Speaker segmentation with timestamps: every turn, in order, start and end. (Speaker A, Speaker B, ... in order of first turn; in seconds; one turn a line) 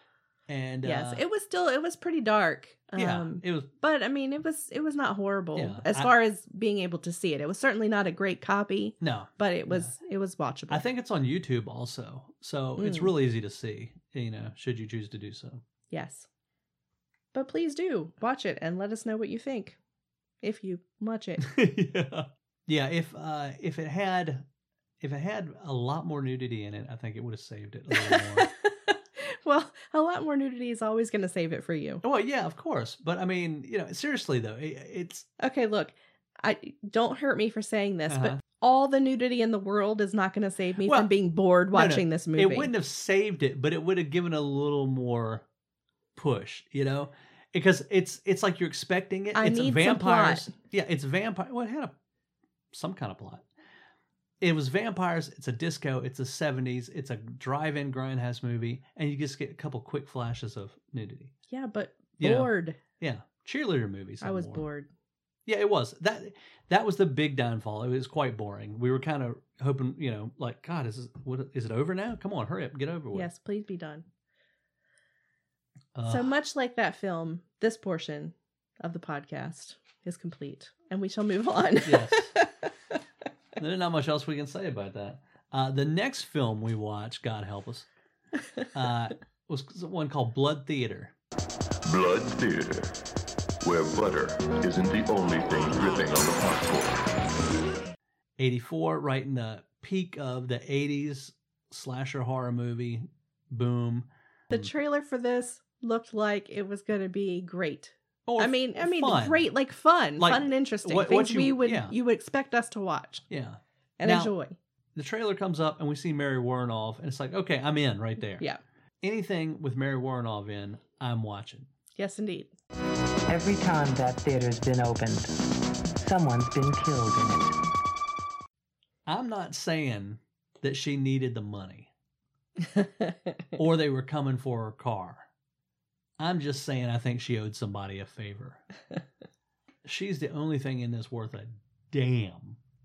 Speaker A: 0.5-1.2
Speaker B: 0.8-10.8
Speaker A: 3.0-3.7
Speaker A: 5.6-6.1
Speaker A: 9.0-9.9
Speaker A: 10.7-15.6
Speaker B: 12.8-13.1
Speaker B: 15.9-16.3
Speaker B: 17.3-19.8
Speaker B: 20.4-21.5
Speaker A: 21.4-24.4
Speaker A: 25.0-28.5
Speaker B: 27.9-32.0
Speaker A: 32.0-35.3
Speaker B: 35.4-42.7
Speaker A: 38.1-38.4
Speaker A: 40.8-41.1
Speaker A: 41.7-45.5
Speaker A: 46.2-51.9
Speaker B: 49.4-50.5
Speaker A: 52.7-53.4
Speaker A: 54.4-61.3
Speaker B: 61.5-62.8
Speaker A: 62.2-64.7
Speaker B: 64.2-64.9
Speaker A: 65.5-73.3
Speaker B: 73.1-74.1
Speaker A: 76.0-76.3
Speaker B: 76.0-82.5
Speaker A: 81.8-82.4
Speaker A: 83.6-87.9
Speaker A: 88.7-91.2
Speaker C: 91.8-92.9
Speaker C: 93.6-97.1
Speaker A: 98.4-104.7
Speaker B: 104.5-113.2
Speaker A: 108.3-109.5
Speaker A: 110.2-111.9
Speaker A: 113.3-114.3
Speaker B: 114.0-114.6
Speaker A: 115.0-118.5
Speaker A: 119.0-121.7
Speaker B: 122.0-122.5
Speaker D: 123.3-125.3
Speaker D: 126.0-127.5
Speaker A: 129.1-131.9
Speaker B: 132.7-133.1
Speaker A: 133.6-135.3
Speaker A: 136.2-138.6
Speaker A: 139.8-142.6